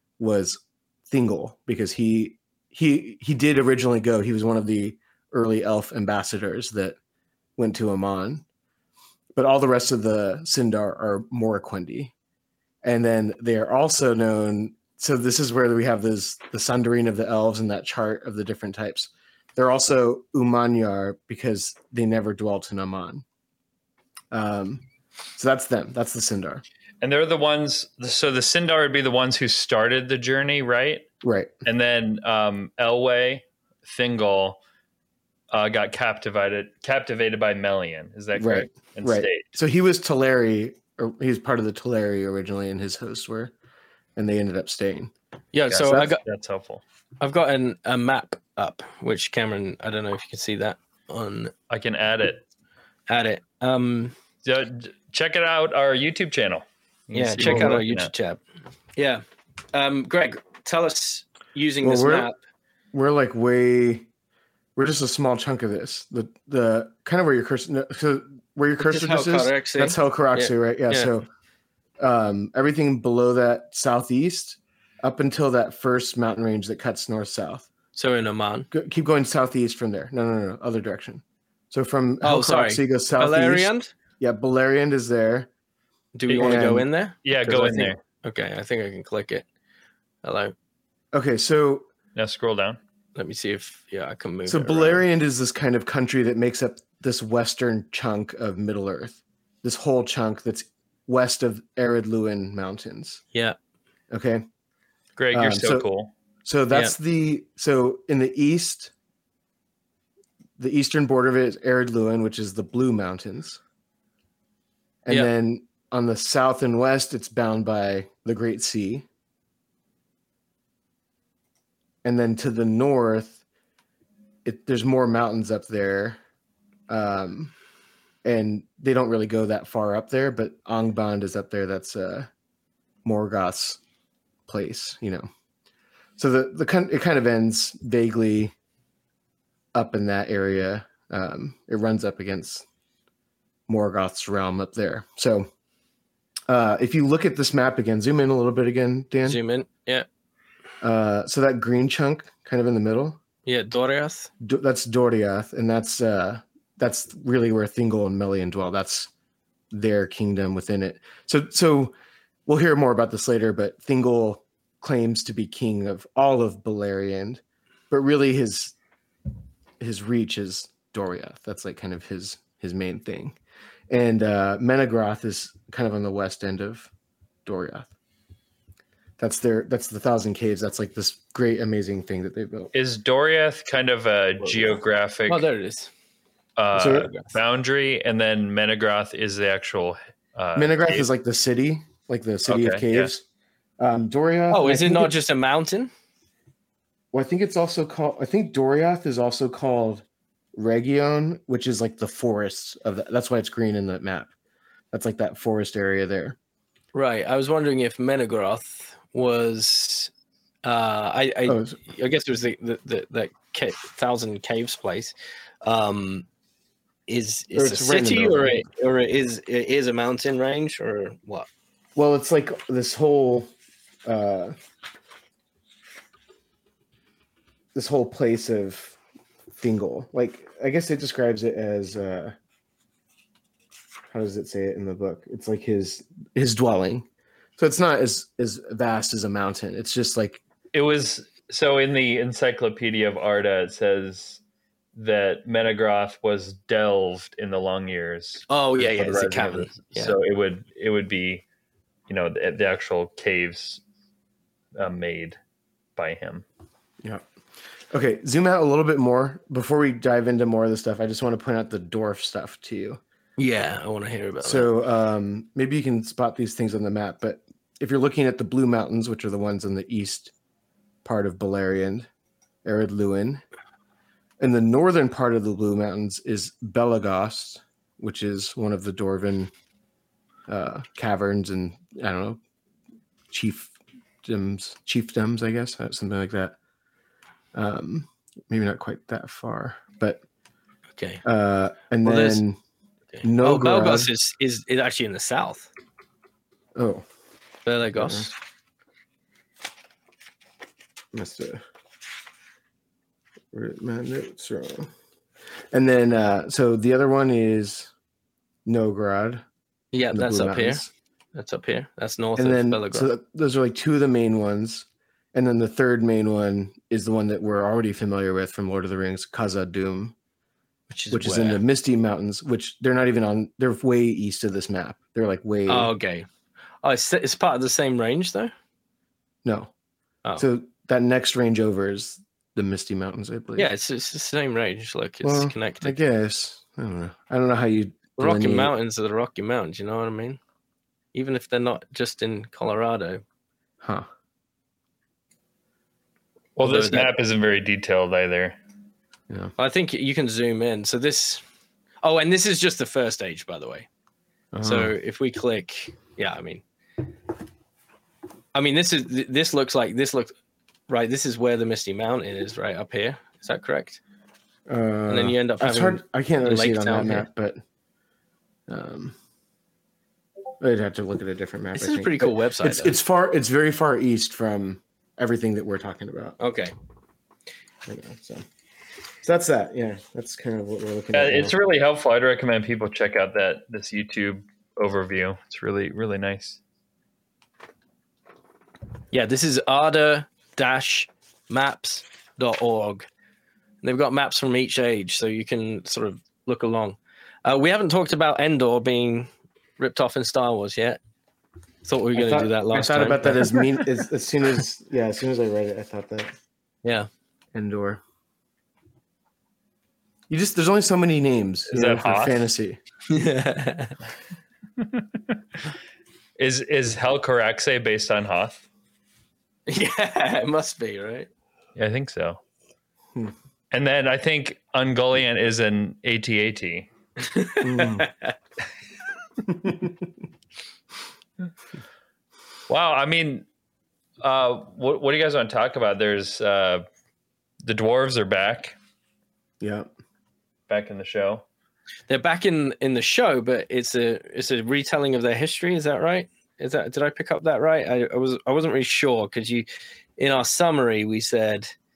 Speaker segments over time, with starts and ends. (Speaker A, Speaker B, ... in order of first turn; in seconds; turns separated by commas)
Speaker A: 0.2-7.0, Speaker A: 7.6-8.4, Speaker A: 9.4-12.1, Speaker A: 12.8-23.2, Speaker A: 24.3-24.8, Speaker A: 25.4-26.6, Speaker B: 27.0-31.1, Speaker A: 31.2-31.5, Speaker B: 31.6-34.6, Speaker B: 35.5-39.5, Speaker A: 38.3-43.5, Speaker A: 44.1-45.1, Speaker C: 45.5-46.2, Speaker B: 45.7-46.8, Speaker C: 47.2-51.5, Speaker B: 51.7-52.4, Speaker C: 53.1-54.1, Speaker B: 54.4-58.1, Speaker C: 57.1-58.4, Speaker C: 59.0-62.4, Speaker A: 61.8-62.3, Speaker A: 62.9-64.1, Speaker A: 64.8-71.3, Speaker C: 68.8-71.1, Speaker A: 72.0-77.7, Speaker C: 77.9-78.7, Speaker A: 78.7-85.5, Speaker C: 82.2-83.9, Speaker C: 86.1-89.5, Speaker B: 86.3-86.6, Speaker A: 86.4-86.9, Speaker B: 87.2-88.0, Speaker C: 90.2-90.5, Speaker A: 91.1-91.9, Speaker B: 92.1-92.8, Speaker C: 93.2-95.0, Speaker A: 94.5-103.2, Speaker A: 104.1-104.4, Speaker B: 105.2-106.1, Speaker A: 105.3-105.9, Speaker A: 106.4-108.9, Speaker A: 110.6-113.6, Speaker A: 115.0-119.1, Speaker A: 122.0-123.4, Speaker A: 124.4-126.2, Speaker A: 126.9-127.5, Speaker A: 128.2-132.3, Speaker A: 133.0-133.8, Speaker A: 134.5-135.3, Speaker A: 136.2-138.5, Speaker A: 139.7-142.7, Speaker A: 143.7-145.5, Speaker A: 146.5-149.4, Speaker C: 149.2-150.1, Speaker A: 150.8-153.2, Speaker C: 153.5-154.3, Speaker A: 154.4-159.1, Speaker A: 159.7-161.9, Speaker A: 162.5-168.8, Speaker A: 169.8-173.3, Speaker A: 173.9-176.9, Speaker A: 177.5-177.9, Speaker A: 179.2-182.7, Speaker B: 182.7-185.4, Speaker C: 184.4-184.7, Speaker C: 185.3-185.9, Speaker B: 186.6-191.1, Speaker A: 186.8-187.1, Speaker C: 186.9-187.3, Speaker A: 190.6-193.2, Speaker B: 192.5-193.1, Speaker A: 193.8-195.1, Speaker C: 194.5-195.9, Speaker A: 197.1-204.3, Speaker A: 204.9-206.4, Speaker C: 206.9-210.1, Speaker C: 210.6-216.2, Speaker A: 211.5-211.8, Speaker C: 217.1-221.5, Speaker A: 217.5-218.6, Speaker A: 222.0-223.5, Speaker A: 224.0-224.5, Speaker A: 227.7-229.0, Speaker A: 229.6-232.3, Speaker A: 234.1-237.1, Speaker A: 237.6-240.4, Speaker B: 240.7-244.4, Speaker B: 244.9-251.4, Speaker C: 248.5-250.2, Speaker B: 252.1-253.8, Speaker B: 254.8-255.4, Speaker B: 256.0-256.4, Speaker A: 257.0-257.2, Speaker A: 257.9-263.0, Speaker C: 263.4-264.7, Speaker A: 264.4-270.3, Speaker A: 271.0-272.1, Speaker A: 272.6-273.4, Speaker A: 274.4-279.5, Speaker A: 280.5-282.4, Speaker A: 283.3-286.6, Speaker A: 287.5-290.2, Speaker C: 291.0-291.2, Speaker A: 291.2-292.6, Speaker C: 292.0-292.4, Speaker C: 293.1-295.7, Speaker A: 293.2-294.1, Speaker A: 296.8-297.0, Speaker C: 297.6-298.3, Speaker A: 297.9-298.3, Speaker A: 301.1-301.6, Speaker A: 303.5-304.9, Speaker A: 305.7-307.9, Speaker A: 308.6-309.4, Speaker C: 309.9-313.1, Speaker A: 310.1-310.9, Speaker A: 312.4-320.1, Speaker C: 320.9-321.6, Speaker A: 321.1-325.9, Speaker C: 325.7-326.3, Speaker C: 326.8-328.5, Speaker A: 329.4-329.7, Speaker A: 330.4-333.7, Speaker C: 333.6-336.0, Speaker A: 335.2-338.7, Speaker C: 338.2-340.4, Speaker C: 341.1-343.2, Speaker A: 343.8-344.1, Speaker B: 346.6-348.6, Speaker C: 346.6-347.1, Speaker C: 349.6-351.4, Speaker C: 352.0-353.9, Speaker A: 354.5-354.9, Speaker C: 354.6-356.6, Speaker C: 358.5-360.3, Speaker C: 360.9-364.0, Speaker A: 364.7-367.6, Speaker C: 365.1-367.3, Speaker A: 368.7-369.1, Speaker A: 370.6-376.4, Speaker C: 371.7-372.9, Speaker C: 376.4-376.7, Speaker A: 377.9-378.4, Speaker A: 379.2-381.5, Speaker B: 381.1-386.6, Speaker C: 389.1-393.1, Speaker C: 393.8-401.0, Speaker C: 401.8-403.8, Speaker A: 402.1-406.3, Speaker A: 407.5-408.0, Speaker A: 410.3-412.8, Speaker B: 411.7-412.5, Speaker C: 413.1-414.0, Speaker B: 414.8-415.0, Speaker B: 416.4-418.6, Speaker C: 419.7-421.3, Speaker B: 421.8-422.4, Speaker B: 423.7-426.9, Speaker C: 427.2-428.3, Speaker A: 427.6-428.1, Speaker A: 429.5-430.0, Speaker B: 432.7-433.5, Speaker B: 434.2-436.8, Speaker B: 437.6-438.8, Speaker A: 439.6-439.9, Speaker B: 440.7-441.4, Speaker C: 442.1-449.6, Speaker C: 450.2-451.7